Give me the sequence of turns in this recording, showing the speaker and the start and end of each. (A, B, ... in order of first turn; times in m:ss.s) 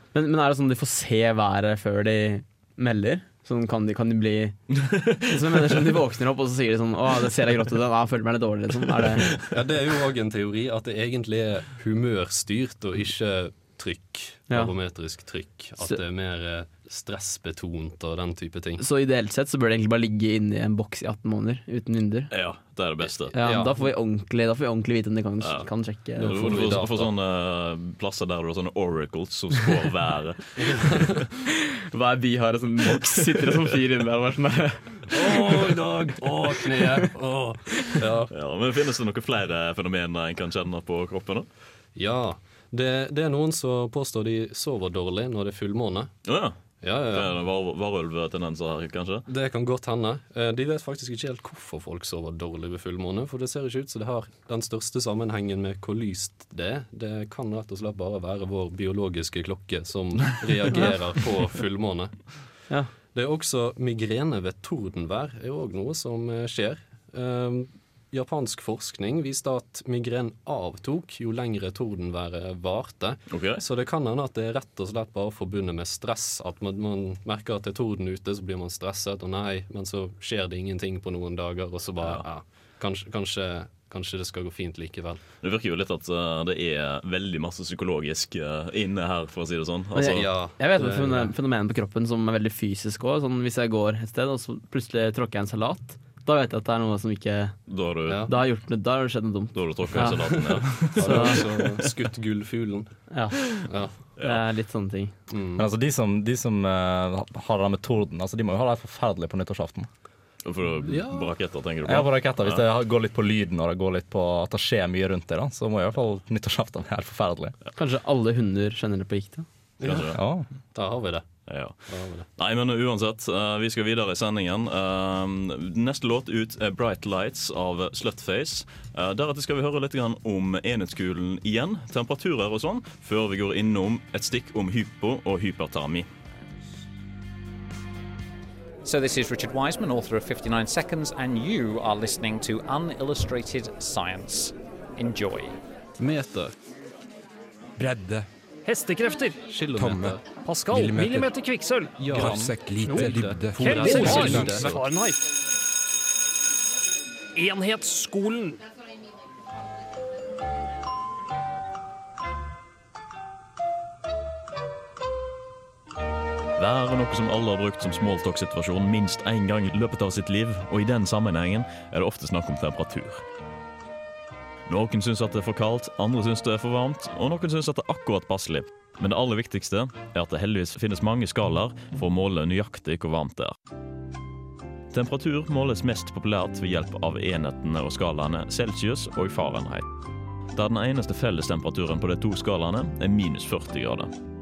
0:00.1-0:04.6 A
0:04.8-0:05.8 B
0:05.2-0:09.3 A
0:09.5-0:18.8 C
0:18.8-0:22.3 A
0:22.3-0:23.3 B
0:23.3-0:26.3 A
0:23.4-0:23.9 C
0:25.4-0:31.2 B
0:26.2-0:27.1 C
0:30.7-0:31.0 C
0:31.9-0:35.6 A
0:35.1-0:38.3 C
0:36.2-0:36.5 B
0:38.3-0:41.5 B
0:42.0-0:46.2 C
0:46.3-0:49.2 B
0:46.8-0:47.4 C
0:49.3-1:02.6 C
1:03.1-1:25.2 C
1:13.3-1:13.6 B
1:25.4-1:30.3 B
1:30.0-1:37.7 A
1:30.0-1:31.3 C
1:37.7-1:38.3 B
1:38.1-1:38.3 C
1:38.3-1:41.4 A
1:39.5-1:41.7 B
1:41.0-1:43.1 C
1:43.1-1:45.2 A
1:43.7-1:44.0 C
1:45.3-1:45.6 C
1:45.6-1:49.9 D
1:50.4-1:52.6 B
1:50.8-1:51.3 C
1:51.8-1:57.5 D
1:57.8-1:59.5 A
1:59.8-2:00.2 C
1:59.8-2:00.2 B
2:00.1-2:00.5 D
2:00.7-2:01.3 C
2:01.5-2:16.1 B
2:01.9-2:02.3 C
2:18.8-2:25.6 E
2:26.0-2:26.5 C
2:27.8-2:28.3 F
2:28.6-2:29.4 G
2:29.5-2:30.2 C
2:29.7-2:31.3 F
2:30.4-2:35.2 G
2:32.0-2:34.8 C
2:32.0-2:34.8 F
2:37.4-2:38.6 G
2:46.6-2:53.2 B
2:54.7-3:03.6 B
3:04.9-3:09.9 B
3:10.6-3:14.1 B